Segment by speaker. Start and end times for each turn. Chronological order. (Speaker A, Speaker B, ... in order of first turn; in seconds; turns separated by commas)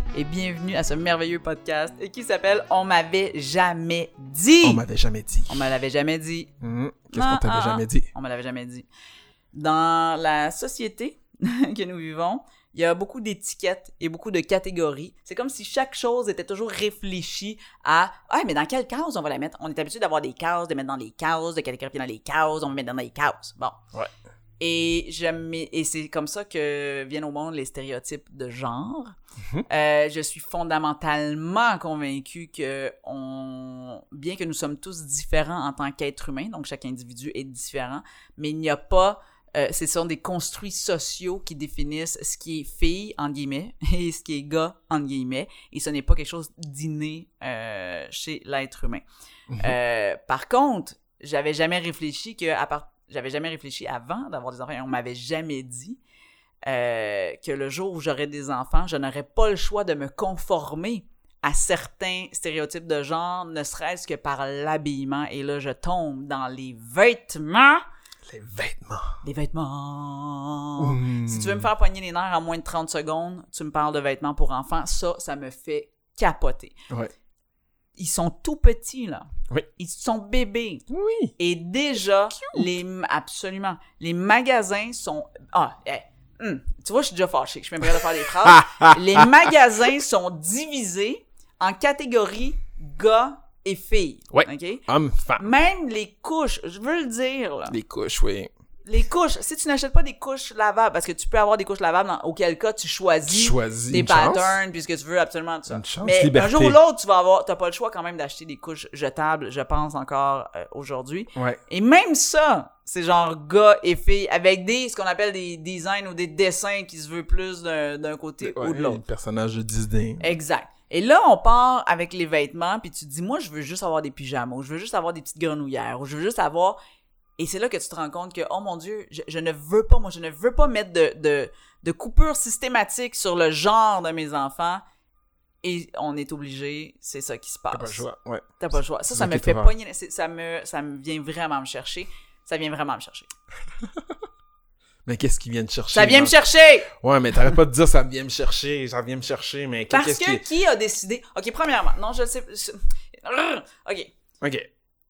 Speaker A: 0.1-4.8, Speaker B: 4.6-5.7, Speaker A: 5.5-6.5, Speaker B: 6.6-8.1, Speaker A: 7.1-8.8, Speaker A: 9.5-23.8, Speaker A: 24.6-29.1, Speaker A: 29.7-49.0, Speaker B: 49.5-49.8, Speaker A: 49.6-56.0, Speaker A: 56.6-67.8, Speaker B: 68.3-69.1, Speaker A: 69.2-76.7, Speaker B: 70.8-71.7, Speaker A: 78.0-80.8, Speaker B: 80.9-81.3, Speaker A: 81.4-94.8, Speaker B: 82.4-82.7, Speaker B: 87.8-89.3, Speaker B: 94.3-95.5, Speaker A: 95.4-97.8, Speaker B: 97.7-98.5, Speaker A: 98.8-119.0, Speaker B: 103.3-104.6, Speaker B: 105.7-106.8, Speaker B: 111.3-111.6, Speaker B: 118.4-120.3, Speaker A: 120.2-126.8, Speaker A: 127.4-134.8, Speaker A: 135.6-138.0, Speaker B: 137.7-138.4, Speaker A: 138.6-143.3, Speaker B: 139.1-139.7, Speaker B: 145.1-146.3, Speaker A: 145.9-146.9, Speaker B: 146.9-150.4, Speaker A: 149.9-154.1, Speaker B: 154.4-154.7